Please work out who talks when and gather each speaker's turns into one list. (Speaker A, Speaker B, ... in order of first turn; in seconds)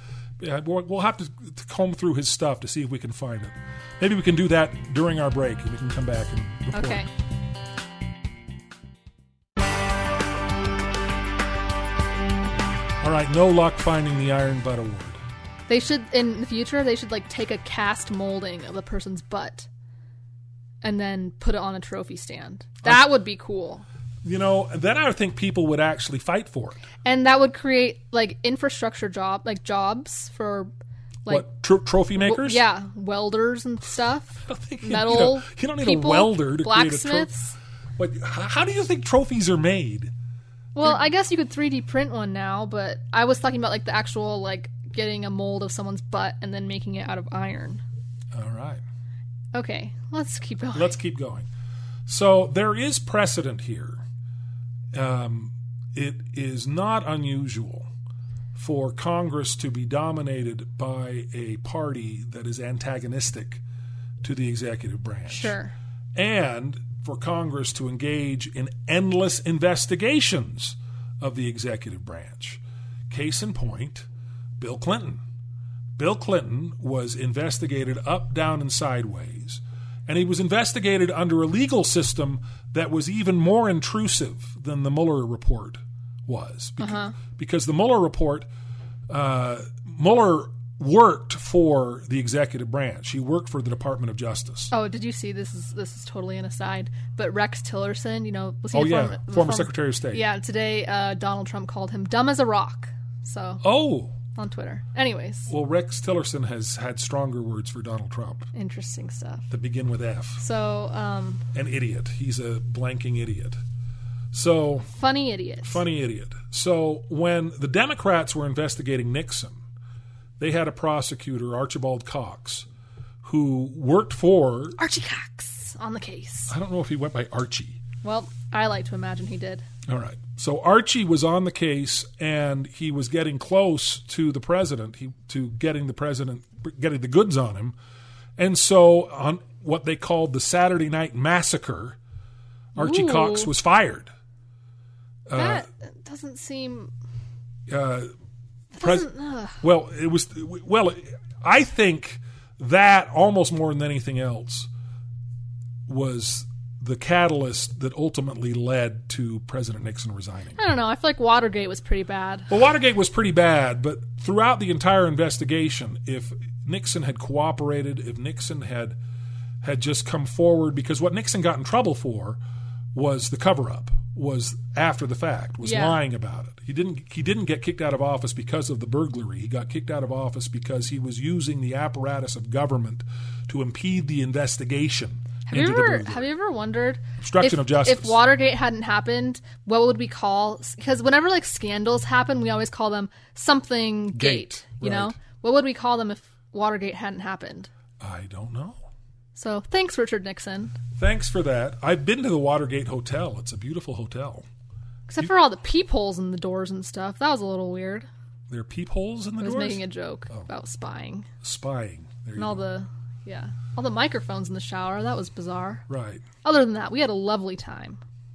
Speaker A: 0.4-7.0, 13.0-15.2, 22.8-23.1, 24.2-26.8, 31.3-32.6, 34.5-37.3, 38.0-40.1, 48.3-48.8, 50.7-51.5, 52.1-54.0, 54.9-57.9, 58.5-63.6, 64.2-65.6, 66.1-74.1, 74.6-75.2, 76.0-88.5, 89.1-94.7, 98.7-100.2, 103.6-104.1, 105.5-108.5, 109.5-110.4, 111.5-113.6, 114.3-114.9, 115.6-119.6, 120.4-122.7, 123.2-124.8, 126.5-127.8, 129.9-137.8, 138.4-142.0, 142.8-144.1, 145.3-145.7, 147.7-148.1, 148.8-149.1, 149.6-154.7, 155.9-160.6, 162.5-169.0, 169.6-172.4, 172.9-186.3, 187.2-188.2, 194.1-195.2, 198.0-198.8, 201.0-204.4, 208.5-210.5, 211.4-212.6, 215.9-216.2
Speaker B: 6.7-7.1, 15.7-19.7, 20.8-23.8, 27.0-30.7, 32.2-37.6, 40.7-47.8, 49.5-50.9, 65.3-65.7, 86.8-87.2, 94.7-103.6, 104.3-105.5, 108.5-109.5, 110.4-111.4, 114.9-115.8, 124.8-126.5, 128.0-129.6, 142.8-143.5, 145.3-146.9, 148.7-149.6, 160.6-162.5, 175.6-176.0, 185.5-197.7, 199.3-200.8, 205.1-208.1, 209.4-211.3, 212.4-215.8, 216.4-218.0